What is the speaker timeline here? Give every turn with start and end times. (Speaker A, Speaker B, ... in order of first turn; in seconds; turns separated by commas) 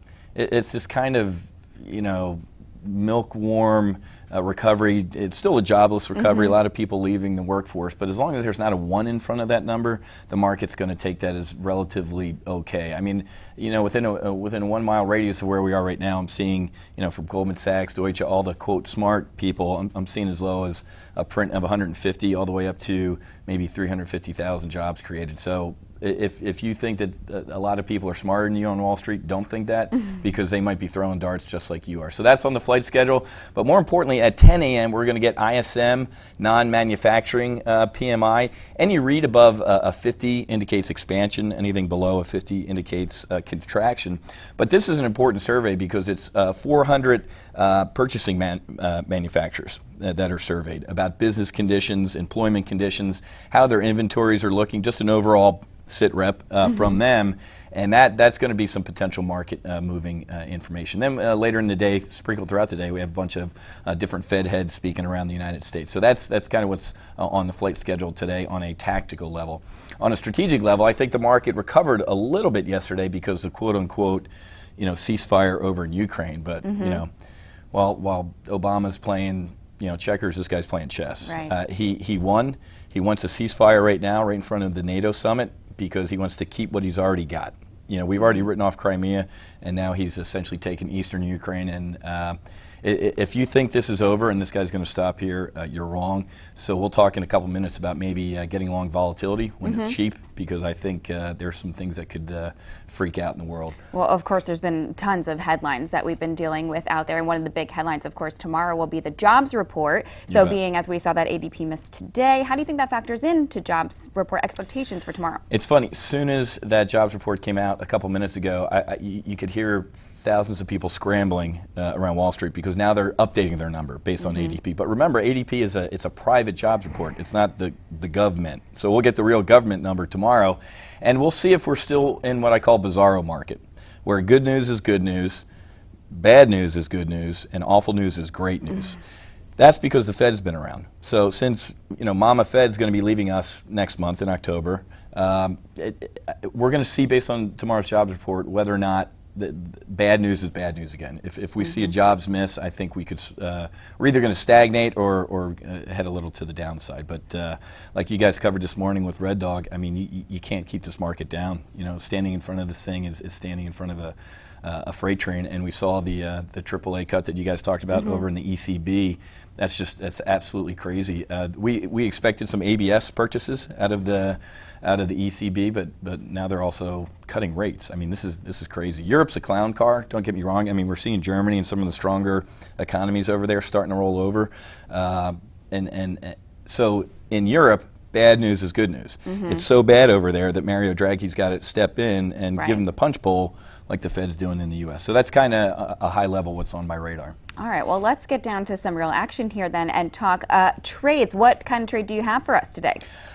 Speaker A: 0.3-74.3, Speaker B: 6.2-6.5, Speaker A: 74.8-77.1, Speaker B: 76.6-77.0, Speaker A: 77.7-103.8, Speaker B: 81.3-81.5, Speaker B: 99.7-100.0, Speaker B: 103.9-115.4, Speaker A: 110.3-110.6, Speaker A: 115.5-135.4, Speaker B: 124.2-124.6, Speaker A: 136.1-139.0, Speaker A: 139.6-197.3, Speaker B: 189.3-189.6, Speaker B: 192.6-192.8, Speaker B: 197.6-203.0